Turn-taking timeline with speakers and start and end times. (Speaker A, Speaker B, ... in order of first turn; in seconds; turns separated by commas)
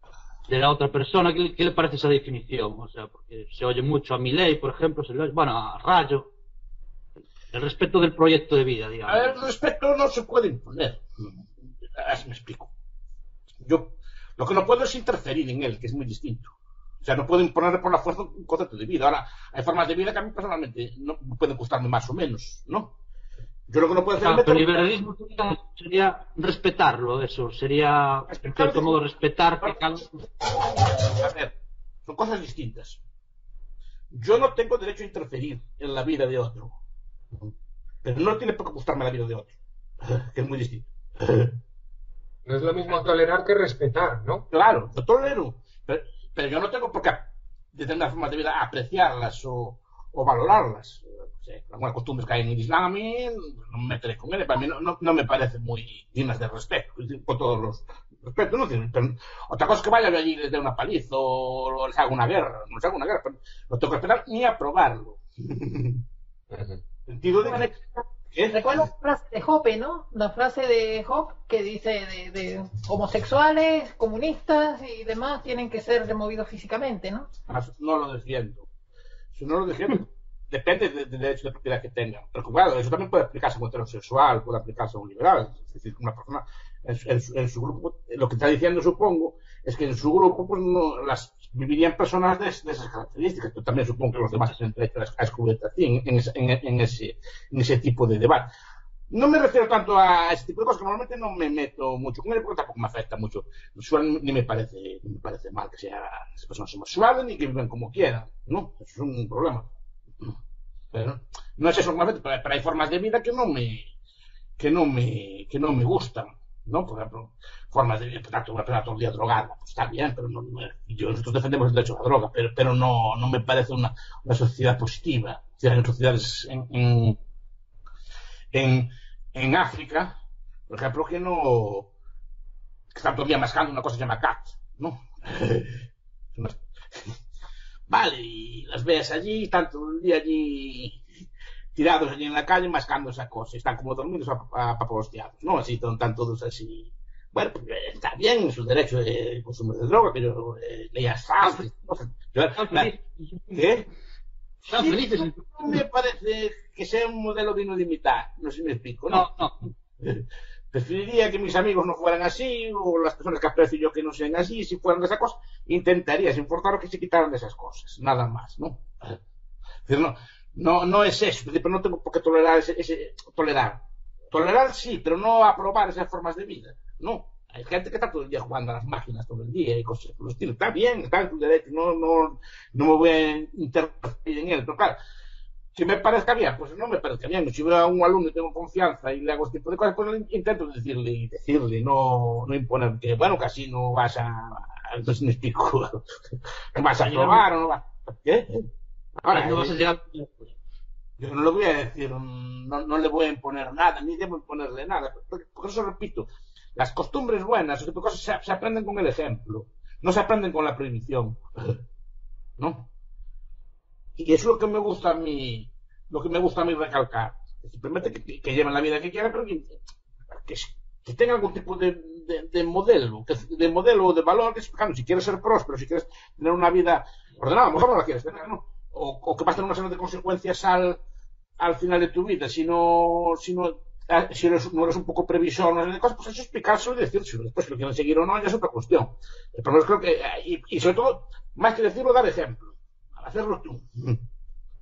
Speaker A: 0.5-6.3, Speaker A: 7.5-9.4, Speaker B: 9.1-11.3, Speaker B: 11.9-12.7, Speaker B: 13.6-22.9, Speaker B: 23.7-24.8, Speaker A: 24.2-30.1, Speaker B: 28.2-29.0, Speaker B: 30.9-31.5, Speaker B: 32.0-33.0, Speaker B: 34.1-36.8, Speaker B: 38.0-41.5, Speaker C: 42.4-44.4, Speaker B: 44.5-66.0, Speaker C: 66.5-66.8, Speaker B: 67.1-67.8, Speaker D: 67.4-67.7, Speaker B: 68.3-68.9, Speaker D: 68.5-77.3, Speaker B: 77.5-78.7, Speaker B: 79.3-98.5, Speaker B: 99.1-109.7, Speaker B: 110.9-113.9, Speaker B: 114.6-127.2, Speaker B: 128.5-130.2, Speaker B: 130.7-131.9, Speaker B: 132.9-137.2, Speaker B: 137.9-141.0, Speaker B: 141.7-152.9, Speaker A: 152.5-153.6, Speaker B: 153.5-153.9, Speaker B: 154.6-159.3, Speaker A: 154.7-155.7, Speaker A: 159.1-159.5, Speaker B: 160.0-169.2, Speaker B: 169.8-185.0, Speaker B: 185.7-196.1, Speaker B: 196.7-198.7, Speaker A: 197.0-197.4, Speaker B: 199.2-199.8, Speaker A: 199.3-200.5, Speaker B: 201.2-211.8, Speaker B: 212.6-212.9, Speaker B: 214.2-219.8, Speaker B: 220.3-231.0, Speaker B: 231.6-244.2